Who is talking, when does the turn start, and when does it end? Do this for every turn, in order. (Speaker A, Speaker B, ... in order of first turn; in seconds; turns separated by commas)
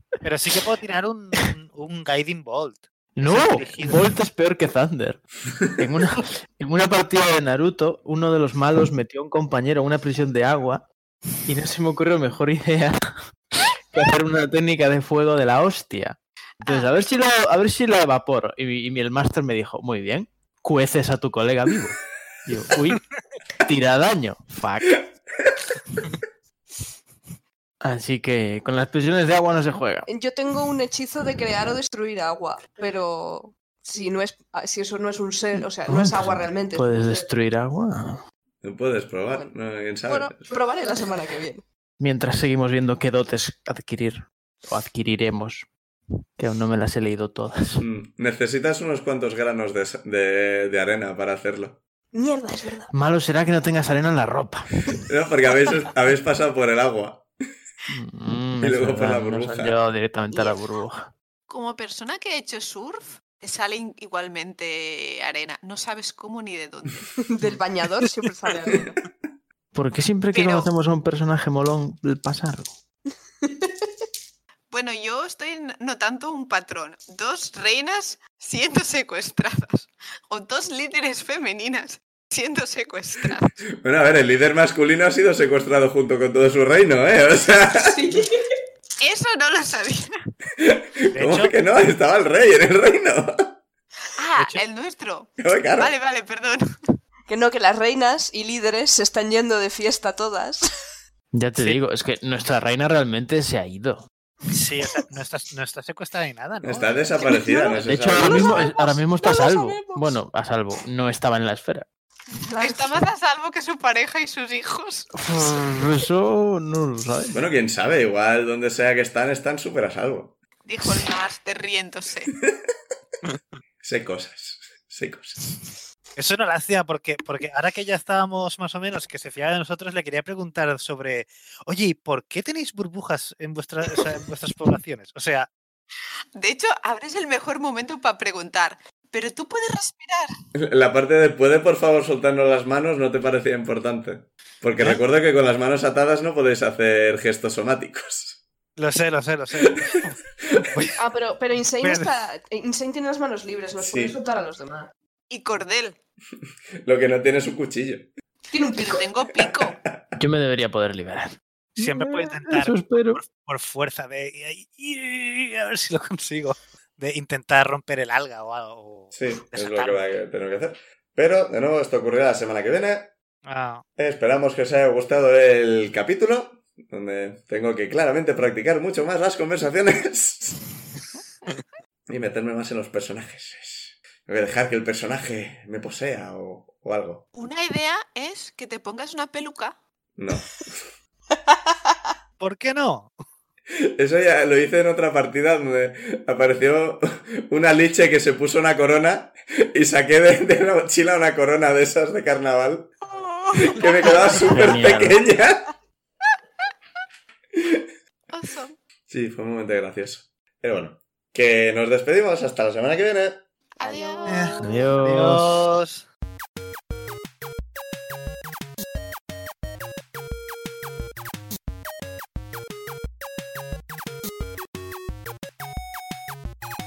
Speaker A: 0.2-2.9, Speaker B: 3.2-10.9, Speaker A: 3.5-4.1, Speaker B: 11.5-13.0, Speaker B: 13.6-23.1, Speaker C: 16.6-16.9, Speaker B: 23.6-25.1, Speaker B: 27.8-30.1, Speaker D: 30.1-37.3, Speaker B: 35.9-38.2, Speaker E: 38.6-40.5, Speaker D: 39.3-39.5, Speaker D: 40.1-41.6, Speaker B: 42.0-45.7, Speaker B: 46.4-47.8, Speaker E: 47.8-51.8, Speaker D: 52.1-52.9, Speaker B: 52.9-55.0, Speaker E: 55.0-57.3, Speaker B: 57.9-61.1, Speaker E: 58.6-59.8, Speaker D: 60.3-60.6, Speaker C: 61.5-67.2, Speaker D: 67.2-69.0, Speaker B: 69.7-72.7, Speaker C: 70.3-70.7, Speaker D: 73.4-73.9, Speaker C: 74.7-83.6, Speaker E: 83.8-88.0, Speaker D: 87.8-88.5, Speaker C: 89.0-90.1, Speaker E: 90.6-93.6, Speaker A: 91.1-91.5, Speaker C: 94.2-96.6, Speaker A: 94.3-94.6, Speaker E: 95.4-95.9, Speaker D: 97.3-100.7, Speaker B: 101.3-104.1, Speaker A: 104.5-106.9, Speaker E: 106.6-108.7, Speaker D: 107.2-110.2, Speaker B: 107.7-111.8, Speaker D: 112.3-113.0, Speaker C: 112.6-115.1, Speaker B: 115.1-117.4, Speaker E: 117.3-120.3, Speaker C: 120.7-122.3, Speaker E: 122.4-122.7, Speaker E: 123.8-125.5, Speaker A: 126.2-135.5, Speaker C: 136.3-140.3, Speaker E: 140.6-148.4, Speaker A: 148.8-150.9, Speaker E: 149.6-150.7, Speaker D: 150.9-154.9, Speaker A: 151.8-152.1, Speaker E: 153.8-154.2, Speaker C: 155.3-156.0, Speaker E: 156.8-158.1, Speaker D: 158.5-159.1, Speaker C: 158.8-159.8, Speaker E: 159.4-160.1, Speaker B: 160.2-163.2, Speaker A: 161.8-170.1, Speaker E: 169.1-173.1, Speaker A: 173.4-173.8, Speaker E: 174.0-180.7, Speaker E: 182.1-187.3, Speaker C: 187.3-189.8, Speaker E: 190.2-190.9, Speaker D: 191.3-191.9, Speaker A: 192.4-193.2, Speaker E: 193.9-202.9, Speaker C: 203.1-204.6, Speaker E: 203.7-205.7, Speaker B: 204.4-205.2, Speaker E: 207.6-207.8, Speaker C: 208.3-208.8, Speaker E: 209.1-213.4, Speaker C: 213.8-215.0, Speaker D: 213.8-214.6, Speaker A: 214.3-216.1, Speaker B: 214.6-215.7